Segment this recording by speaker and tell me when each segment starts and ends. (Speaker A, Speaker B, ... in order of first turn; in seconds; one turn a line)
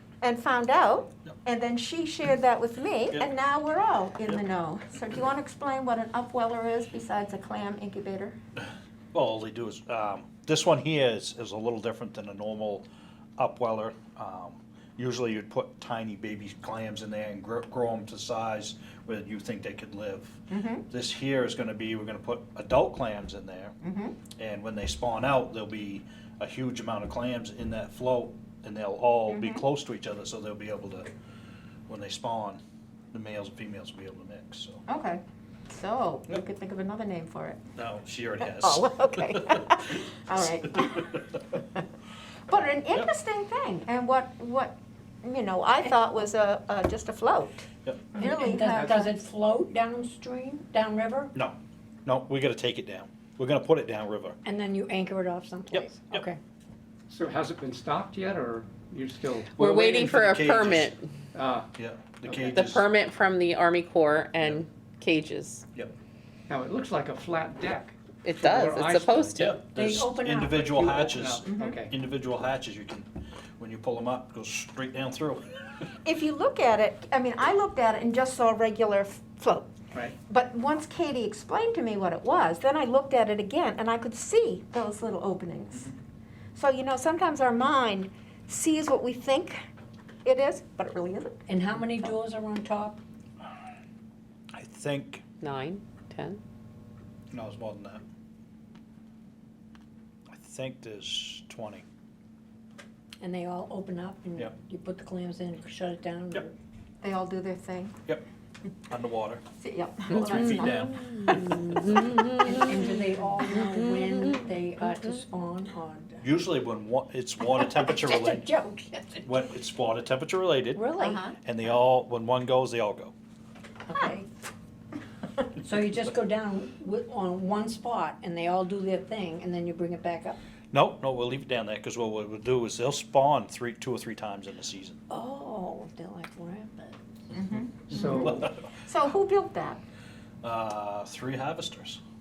Speaker A: 0.2-8.4
Speaker B: 9.1-12.9
Speaker B: 13.4-23.8
Speaker A: 20.5-20.9
Speaker A: 23.8-24.2
Speaker B: 24.4-31.1
Speaker A: 29.3-29.6
Speaker B: 31.9-32.6
Speaker B: 33.1-34.8
Speaker A: 34.9-37.6
Speaker B: 37.8-40.5
Speaker A: 38.4-41.8
Speaker A: 42.5-49.1
Speaker C: 45.8-46.1
Speaker C: 48.1-51.3
Speaker B: 51.3-54.4
Speaker C: 54.5-56.4
Speaker B: 55.7-56.3
Speaker D: 57.1-60.2
Speaker E: 59.5-61.1
Speaker B: 59.9-60.9
Speaker D: 61.3-61.7
Speaker B: 61.8-62.9
Speaker D: 62.2-62.6
Speaker E: 62.5-65.7
Speaker D: 66.5-69.5
Speaker E: 68.2-69.6
Speaker B: 69.3-75.5
Speaker C: 69.7-70.5
Speaker D: 70.5-72.0
Speaker A: 71.5-71.8
Speaker A: 76.0-79.7
Speaker A: 80.2-85.9
Speaker A: 86.5-89.6
Speaker A: 90.2-91.5
Speaker C: 91.5-93.0
Speaker B: 94.5-95.2
Speaker E: 95.4-96.4
Speaker B: 97.3-98.0
Speaker B: 100.3-101.8
Speaker C: 103.2-106.5
Speaker A: 107.0-108.0
Speaker B: 108.9-109.4
Speaker A: 109.6-110.9
Speaker B: 110.1-112.2
Speaker E: 110.6-112.5
Speaker C: 112.4-116.3
Speaker B: 116.2-118.5
Speaker C: 117.6-119.2
Speaker B: 119.2-120.9
Speaker C: 120.8-121.3
Speaker A: 121.0-121.4
Speaker B: 121.4-123.1
Speaker C: 123.9-124.3
Speaker C: 125.6-130.4
Speaker B: 130.7-135.0
Speaker C: 135.1-137.0
Speaker A: 137.3-139.8
Speaker B: 137.9-138.6
Speaker D: 137.9-138.4
Speaker B: 140.4-142.0